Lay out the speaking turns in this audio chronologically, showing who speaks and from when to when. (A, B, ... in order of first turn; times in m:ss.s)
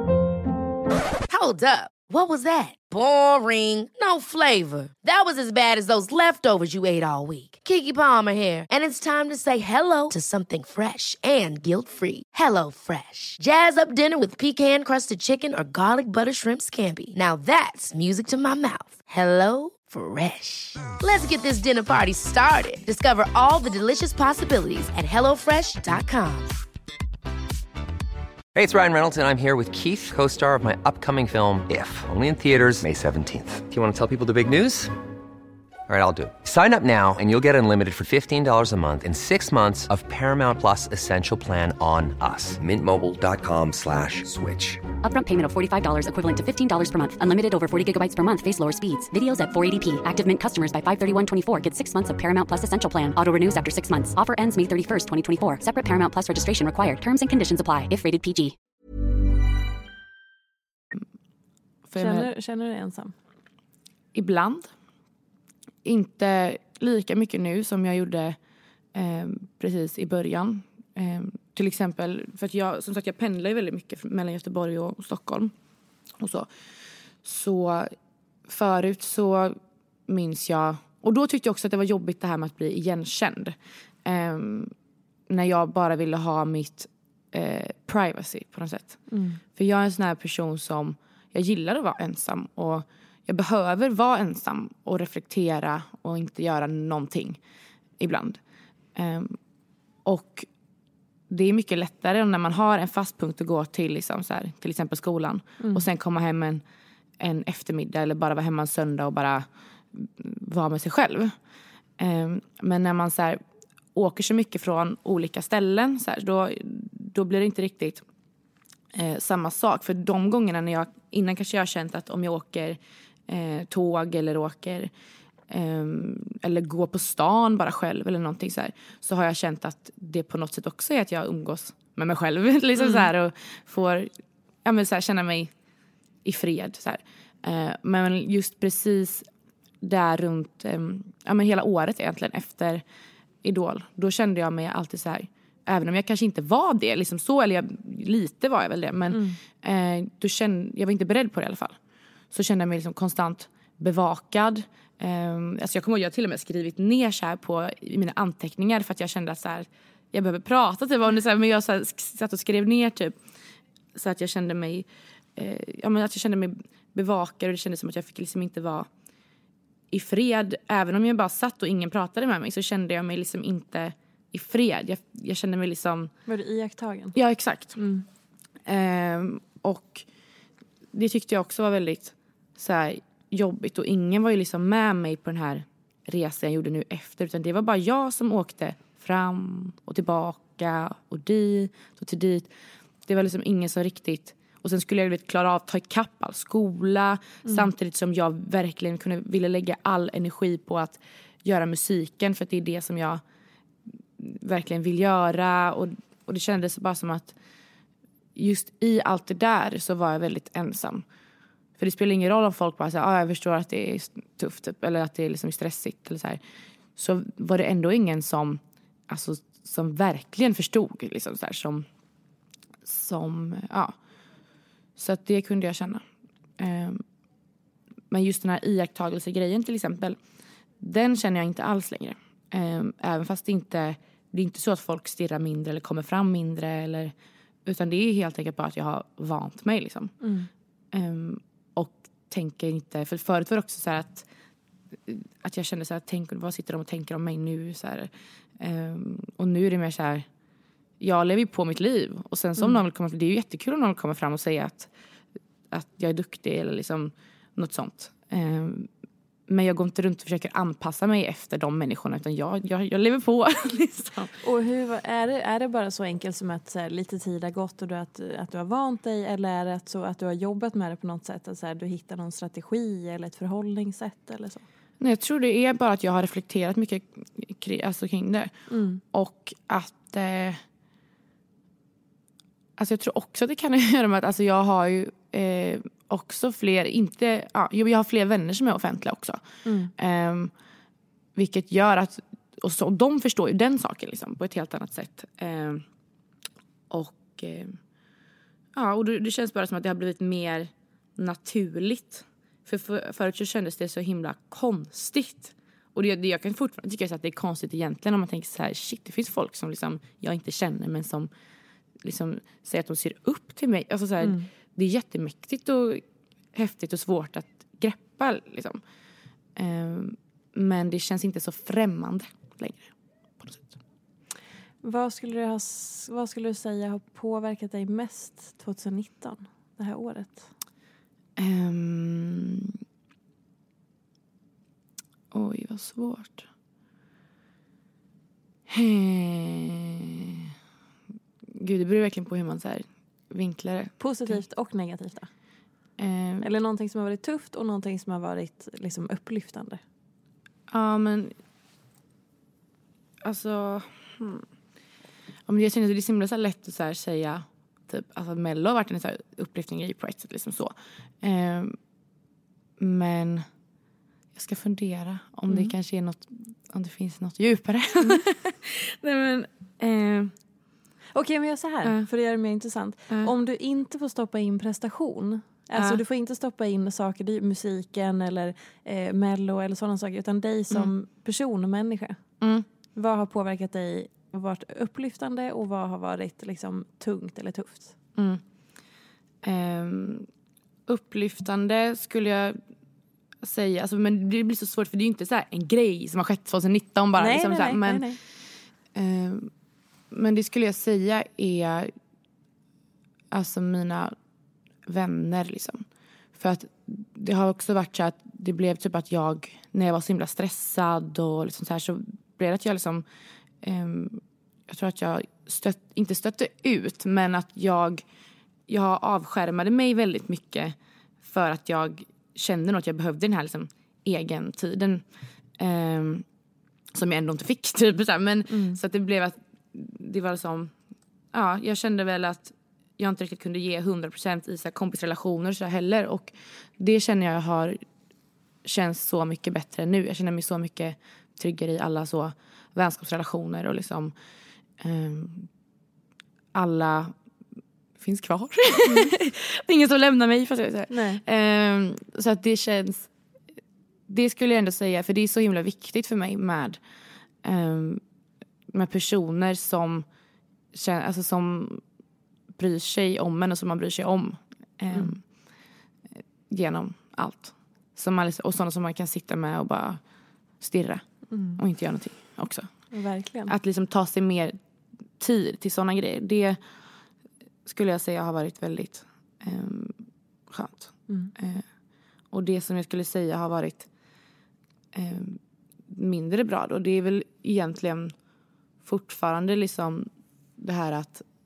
0:01.3-0:26.6 A
0:28.5-0:34.9 B
0:35.9-0:44.8 B
0:45.0-0:58.6 C
1:01.9-1:02.3 D
1:01.9-1:03.1 E
1:04.1-1:04.7 D
1:05.8-1:08.4 D
1:08.9-1:15.5 D
1:16.2-1:16.5 D
1:17.2-1:17.9 D
1:18.5-1:24.7 D
1:25.3-1:29.0 D
1:29.1-1:29.4 E
1:29.5-1:37.4 D
1:38.0-1:38.4 D
1:38.9-1:39.4 D
1:40.0-1:40.5 D
1:41.3-1:46.6 D
1:45.6-1:45.8 E
1:47.2-1:51.3 D
1:52.0-1:53.4 D
1:53.9-1:58.0 D
1:58.9-2:04.9 D
2:05.5-2:14.1 D
2:12.8-2:13.1 E
2:14.6-2:15.5 D
2:16.2-2:19.3 D
2:19.8-2:22.8 D
2:23.4-2:31.8 D
2:29.1-2:29.4 E
2:32.3-2:43.1 D
2:43.9-2:48.9 D
2:49.9-2:56.1 D
2:56.3-2:57.1 E
2:57.1-2:57.8 D
2:57.8-2:58.0 E
2:58.7-3:00.0 D
3:00.9-3:12.5 D
3:13.0-3:23.2 D
3:24.2-3:27.3 D
3:28.4-3:31.0 D
3:31.8-3:36.4 D
3:37.0-3:41.8 D
3:42.8-3:43.9 D
3:45.0-3:46.0 D
3:46.6-3:47.0 D
3:48.1-3:50.2 D
3:50.8-3:57.1 D
3:57.6-4:00.1 D
4:00.2-4:00.5 E
4:00.9-4:04.2 D
4:05.1-4:10.2 D
4:11.0-4:14.9 D
4:15.7-4:18.9 D
4:19.5-4:24.3 D
4:24.4-4:34.6 E
4:35.0-4:38.5 D
4:38.7-4:39.0 E
4:39.1-4:40.6 D
4:42.8-4:49.4 D
4:49.6-4:49.9 E
4:50.0-4:50.5 D
4:51.4-4:55.8 D
4:56.9-4:57.8 D
4:58.7-5:11.3 D
5:12.0-5:16.0 D
5:14.2-5:14.5 E
5:16.5-5:18.8 D
5:19.6-5:22.9 D
5:23.4-5:23.7 D
5:24.8-5:30.5 E
5:31.4-5:32.8 D
5:35.3-5:36.5 D
5:38.7-5:40.4 D
5:41.5-5:44.4 D
5:44.0-5:45.3 E
5:46.0-5:46.4 D
5:46.4-5:49.8 E
5:50.7-5:51.3 D
5:53.2-5:54.4 D
5:55.5-6:01.8 D
6:02.8-6:03.4 D
6:04.3-6:10.3 D
6:11.1-6:22.2 E
6:22.4-6:22.6 D
6:23.0-6:27.9 E
6:28.2-6:28.4 D
6:29.4-6:30.3 D
6:30.9-6:32.6 D
6:33.4-6:38.1 D
6:37.2-6:38.2 E
6:38.9-6:39.5 D
6:40.1-6:41.9 D
6:43.3-6:44.1 D
6:44.9-6:45.8 D
6:46.4-6:53.0 D
6:53.6-6:58.0 D
6:58.7-7:05.0 D
7:05.6-7:06.2 D
7:06.9-7:10.7 D
7:08.5-7:08.8 E
7:11.3-7:17.8 D
7:18.6-7:24.1 D
7:24.8-7:25.5 D
7:26.5-7:27.1 D
7:28.0-7:33.1 D
7:28.8-7:29.1 E
7:30.9-7:31.2 E
7:34.1-7:36.8 D
7:37.4-7:38.0 D
7:38.7-7:40.0 D
7:40.7-7:41.8 D
7:42.6-7:45.2 D
7:46.5-7:50.0 D
7:50.6-7:51.0 D
7:51.3-7:51.6 E
7:51.6-7:52.7 D
7:52.9-7:53.5 E
7:53.5-7:54.6 D
7:55.2-7:56.6 D
7:57.6-8:00.0 D
8:00.5-8:01.6 D
8:02.3-8:03.9 D
8:04.9-8:08.1 D
8:08.8-8:10.1 D
8:10.6-8:11.2 D